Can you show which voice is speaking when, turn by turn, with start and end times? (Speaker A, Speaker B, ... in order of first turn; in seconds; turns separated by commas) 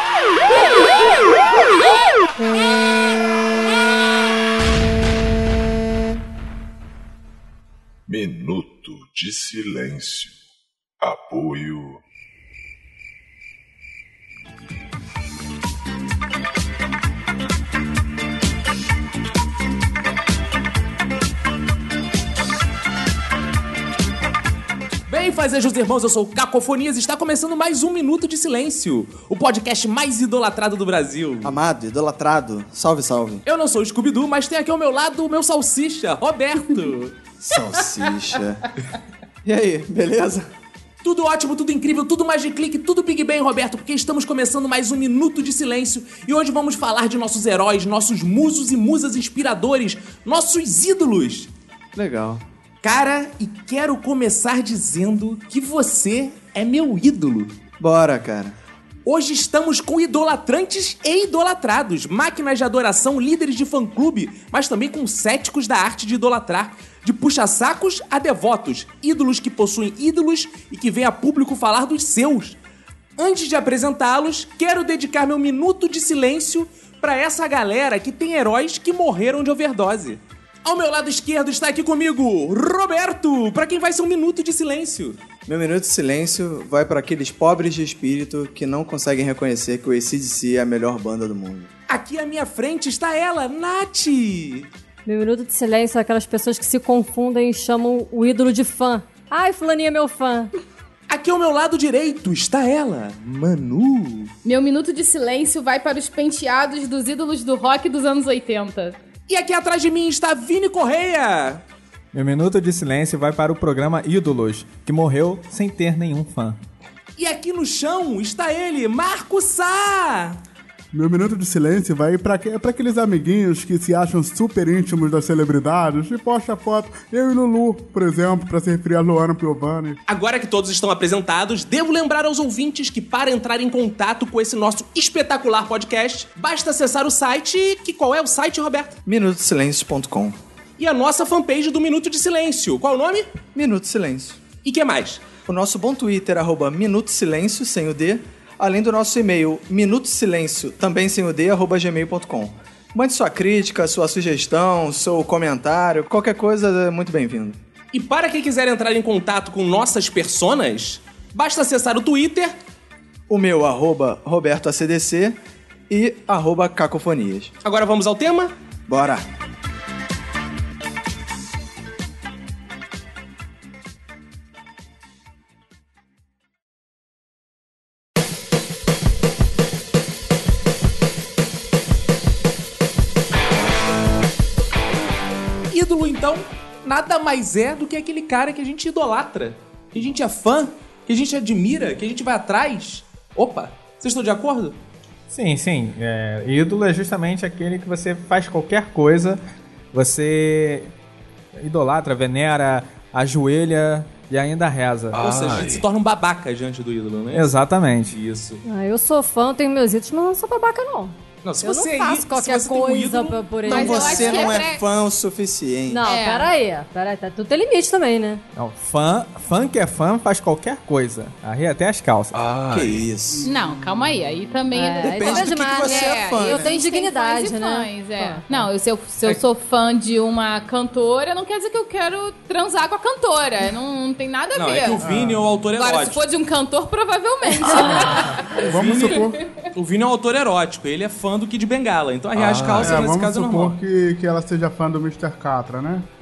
Speaker A: 8.1-10.4, Speaker A: 11.0-12.0, Speaker B: 25.1-31.6, Speaker C: 31.4-33.4, Speaker B: 33.5-37.1, Speaker C: 37.4-38.6, Speaker C: 39.5-40.5, Speaker B: 41.0-51.5, Speaker C: 52.0-52.4, Speaker B: 52.8-57.5, Speaker C: 57.8-58.5, Speaker B: 59.0-72.6, Speaker B: 73.2-85.2, Speaker C: 85.5-91.7, Speaker B: 91.9-94.7, Speaker D: 95.1-100.5, Speaker B: 101.1-104.3, Speaker E: 104.5-109.0, Speaker B: 109.3-111.6, Speaker F: 112.1-116.6, Speaker B: 117.2-120.4, Speaker G: 120.9-130.0, Speaker B: 130.1-139.0, Speaker C: 139.1-140.4, Speaker B: 140.8-143.3, Speaker C: 143.6-144.4, Speaker B: 144.6-145.2, Speaker C: 145.5-157.6, Speaker B: 157.9-162.6, Speaker C: 163.3-165.4, Speaker C: 165.9-167.5, Speaker B: 167.6-168.5, Speaker C: 168.9-169.3, Speaker B: 185.7-194.8, Speaker F: 195.3-199.4, Speaker F: 199.9-200.9, Speaker F: 201.6-205.2, Speaker A: 205.1-205.8, Speaker B: 205.2-208.6, Speaker F: 207.3-208.2, Speaker D: 208.7-214.6, Speaker B: 211.4-213.8, Speaker E: 213.7-214.8, Speaker C: 213.7-216.0, Speaker D: 215.9-218.4, Speaker E: 216.0-216.5, Speaker F: 218.6-222.4, Speaker A: 222.3-223.1, Speaker C: 222.7-223.6, Speaker E: 223.4-235.1, Speaker D: 224.7-228.6, Speaker C: 225.0-226.8, Speaker B: 234.6-236.2, Speaker G: 235.0-235.4, Speaker E: 235.7-239.5, Speaker G: 237.8-239.4, Speaker B: 238.5-243.8, Speaker A: 242.3-243.0, Speaker G: 242.8-246.1